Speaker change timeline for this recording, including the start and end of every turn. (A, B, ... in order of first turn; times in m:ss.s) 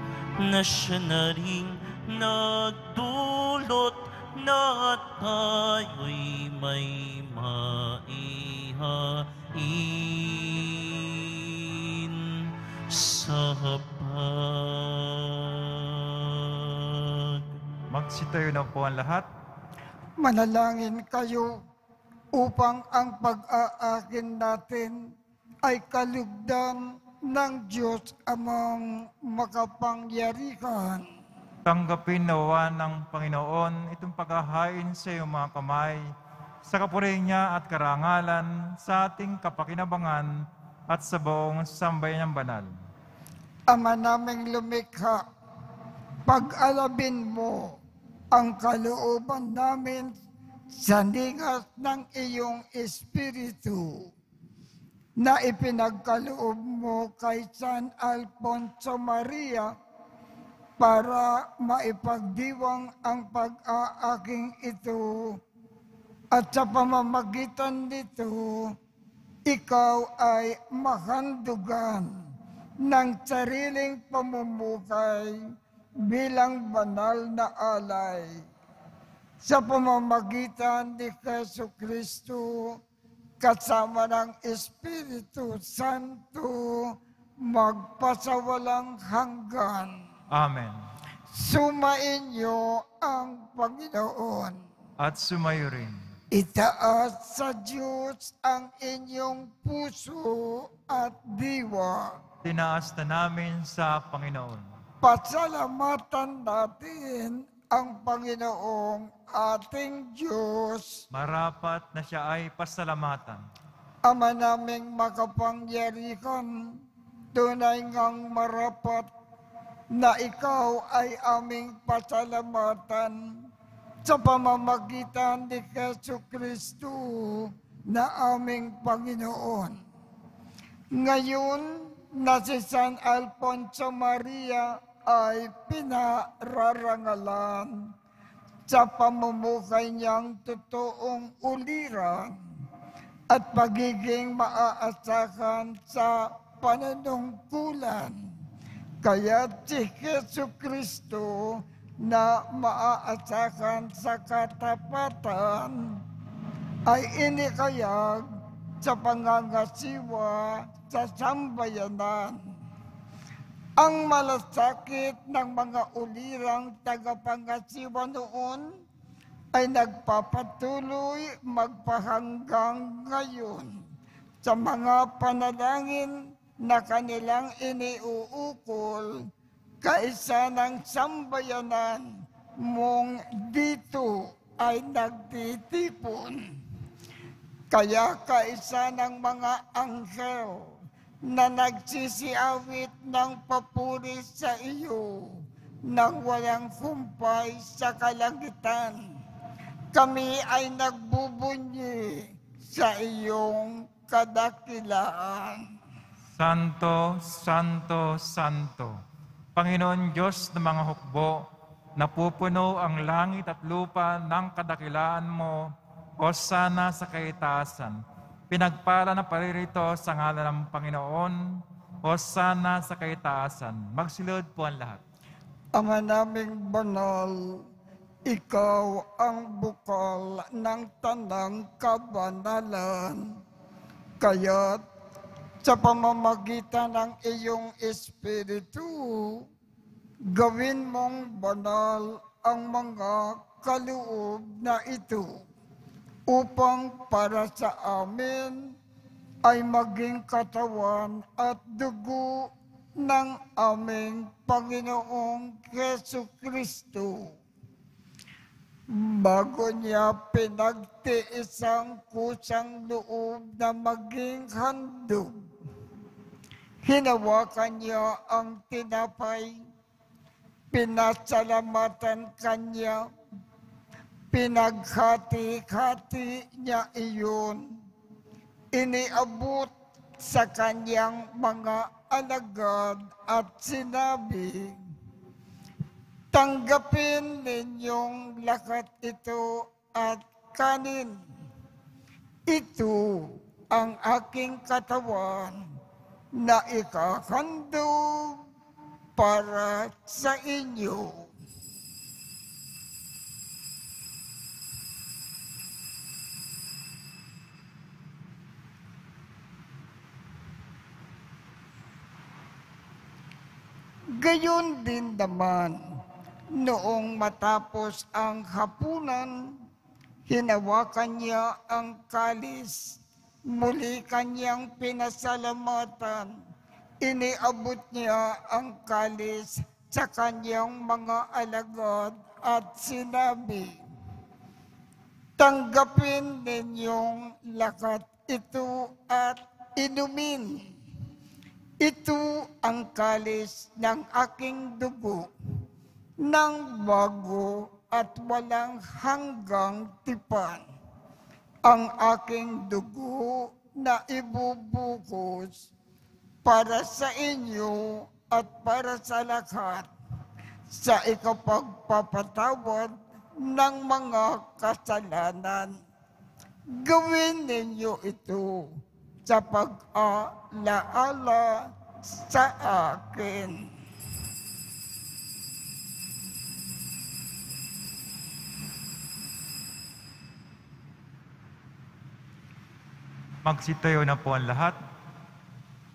0:00.4-0:17.5 A
0:17.9-0:19.3 B
0:20.2-0:21.6 C
0:22.4-0:25.1 C
0:25.6-0:31.0 C
0:31.7-0:36.0 B
0:36.7-0:42.7 B
0:43.7-0:45.2 C
0:46.3-0:47.8 C
0:48.3-0:50.1 C
0:50.7-0:54.1 C
0:55.2-0:59.7 C
1:00.8-1:05.4 C
1:06.3-1:08.8 C
1:09.5-1:12.1 C
1:12.8-1:15.4 C
1:16.1-1:18.4 C
1:19.4-1:22.8 C
1:23.4-1:30.0 C
1:30.3-1:30.8 B
1:31.3-1:34.6 C
1:35.0-1:36.0 B
1:36.3-1:42.2 C
1:42.4-1:44.7 B
1:45.0-1:51.0 C
1:51.1-1:53.4 B
1:54.1-1:56.8 C
1:57.3-1:59.1 C
1:59.9-2:03.2 C
2:04.0-2:09.8 C
2:11.0-2:17.8 C
2:18.7-2:22.4 C
2:23.3-2:28.2 C
2:29.0-2:36.0 C
2:36.9-2:38.3 C
2:38.8-2:42.4 C
2:43.8-2:48.7 C
2:49.5-2:53.7 C
2:54.4-2:59.2 C
2:59.8-3:02.1 C
3:02.6-3:06.4 C
3:07.7-3:10.7 C
3:11.3-3:19.0 C
3:19.9-3:25.6 C
3:26.4-3:29.0 B
3:29.6-3:31.4 B
3:32.0-3:38.0 B
3:38.5-3:45.0 B
3:45.8-3:47.4 C
3:48.3-3:53.2 C
3:54.2-3:54.8 C
3:55.6-3:59.5 C
4:00.3-4:05.3 C
4:06.3-4:08.7 C
4:09.5-4:12.5 C
4:13.0-4:17.3 C
4:18.9-4:25.4 C
4:26.8-4:29.6 C
4:30.7-4:33.1 C
4:34.3-4:37.7 C
4:38.7-4:44.8 C
4:46.3-4:51.1 C
4:52.5-4:55.6 C
4:56.4-4:58.4 C
4:59.2-5:01.3 C
5:14.2-5:15.8 C
5:16.6-5:19.6 C
5:20.3-5:26.4 C
5:27.0-5:33.8 C
5:35.4-5:40.7 C
5:41.8-5:45.3 C
5:46.2-5:50.6 C
5:51.7-5:55.6 C
5:56.4-5:59.9 C
6:00.7-6:05.8 C
6:06.8-6:08.7 C
6:09.2-6:13.7 C
6:23.4-6:24.8 B